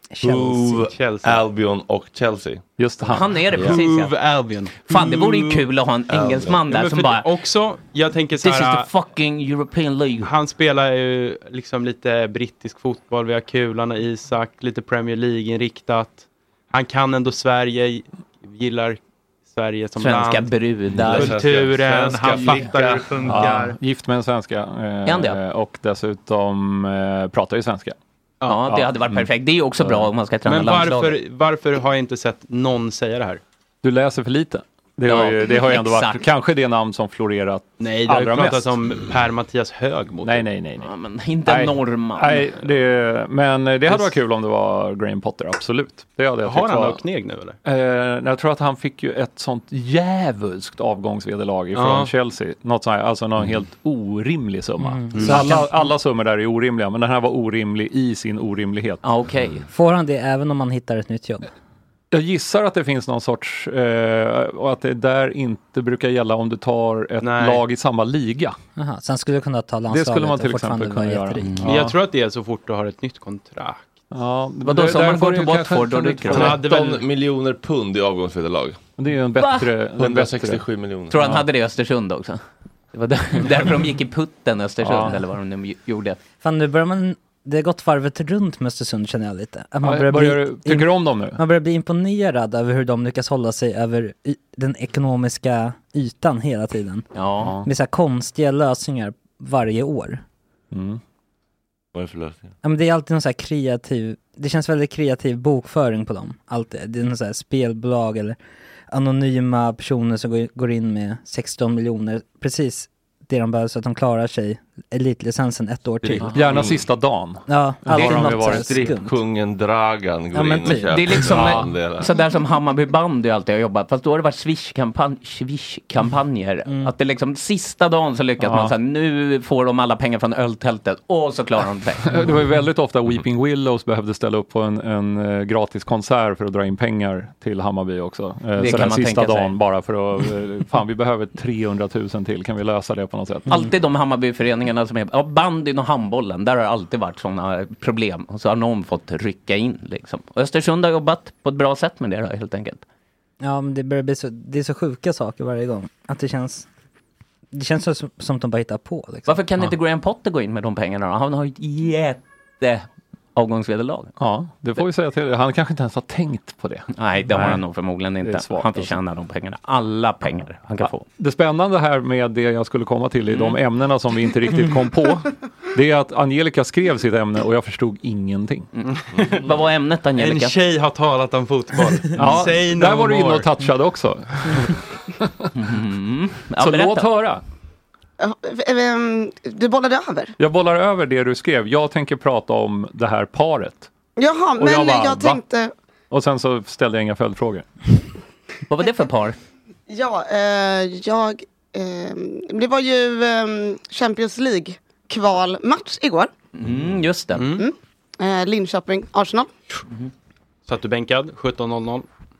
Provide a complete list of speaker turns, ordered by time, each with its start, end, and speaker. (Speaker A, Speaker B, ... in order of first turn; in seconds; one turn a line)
Speaker A: 0.1-0.9
Speaker B: 0.3-1.4
Speaker C: 0.3-2.6
Speaker D: 2.8-3.4
Speaker E: 3.1-4.2
Speaker B: 3.5-5.7
Speaker E: 4.8-7.3
Speaker C: 6.1-6.6
Speaker B: 6.7-8.9
Speaker E: 8.4-10.3
Speaker B: 10.2-23.7
Speaker E: 20.0-21.4
Speaker C: 20.9-23.6
Speaker D: 23.2-27.9
Speaker E: 25.1-25.4
Speaker B: 28.4-28.8
Speaker E: 28.5-31.2
Speaker B: 30.4-33.4
Speaker D: 33.8-38.8
Speaker E: 35.0-36.2
Speaker B: 37.8-40.5
Speaker D: 40.2-40.9
Speaker E: 40.8-42.5
Speaker D: 41.5-47.0
Speaker B: 43.9-44.1
Speaker B: 46.4-47.6
Speaker D: 47.6-59.0
Speaker B: 51.7-52.1
Speaker A: 54.8-55.9
Speaker B: 55.1-55.5
Speaker E: 59.0-59.6
Speaker A: 59.7-61.5
Speaker D: 62.1-68.5
Speaker B: 67.2-67.6
Speaker A: 68.8-71.7
Speaker D: 69.9-72.0
Speaker B: 71.6-74.0
Speaker D: 74.1-76.7
Speaker E: 74.6-76.6
Speaker B: 76.3-77.0
Speaker C: 76.4-78.8
Speaker D: 79.0-80.6
Speaker E: 79.4-79.7
Speaker C: 80.0-81.1
Speaker E: 81.1-82.4
Speaker D: 81.2-81.4
Speaker E: 82.9-86.2
Speaker D: 84.8-85.2
Speaker A: 86.4-97.0
Speaker D: 89.8-91.4
Speaker E: 97.1-97.5
Speaker D: 97.4-97.7
Speaker A: 97.6-100.2
Speaker D: 100.7-101.0
Speaker C: 101.9-102.5
Speaker A: 102.6-108.4
Speaker A: 108.9-116.5
Speaker C: 116.1-116.8
Speaker E: 116.2-116.5
Speaker D: 116.2-118.9
Speaker A: 117.5-119.2
Speaker C: 118.0-122.1
Speaker A: 120.3-121.0
Speaker E: 120.8-132.2
Speaker D: 121.2-121.7
Speaker A: 126.7-126.9
Speaker D: 128.4-128.7
Speaker D: 132.0-143.5
Speaker E: 138.6-139.6
Speaker E: 143.5-152.8
Speaker A: 153.4-156.7
Speaker A: 157.5-159.4
Speaker E: 159.2-164.1
Speaker D: 164.2-167.6
Speaker E: 166.9-171.0
Speaker D: 168.2-168.9
Speaker D: 170.8-178.7
Speaker E: 173.3-173.6
Speaker E: 178.8-180.6
Speaker B: 178.9-179.5
Speaker B: 180.2-183.5
Speaker D: 182.1-185.5
Speaker E: 185.5-187.1
Speaker D: 186.6-187.4
Speaker F: 188.2-190.3
Speaker D: 190.4-193.9
Speaker F: 194.2-195.7
Speaker D: 194.6-195.4
Speaker D: 196.1-197.6
Speaker E: 198.7-199.4
Speaker F: 199.9-206.3
Speaker E: 206.6-207.4
Speaker B: 207.3-207.7
Speaker F: 207.6-209.5
Speaker B: 210.7-212.1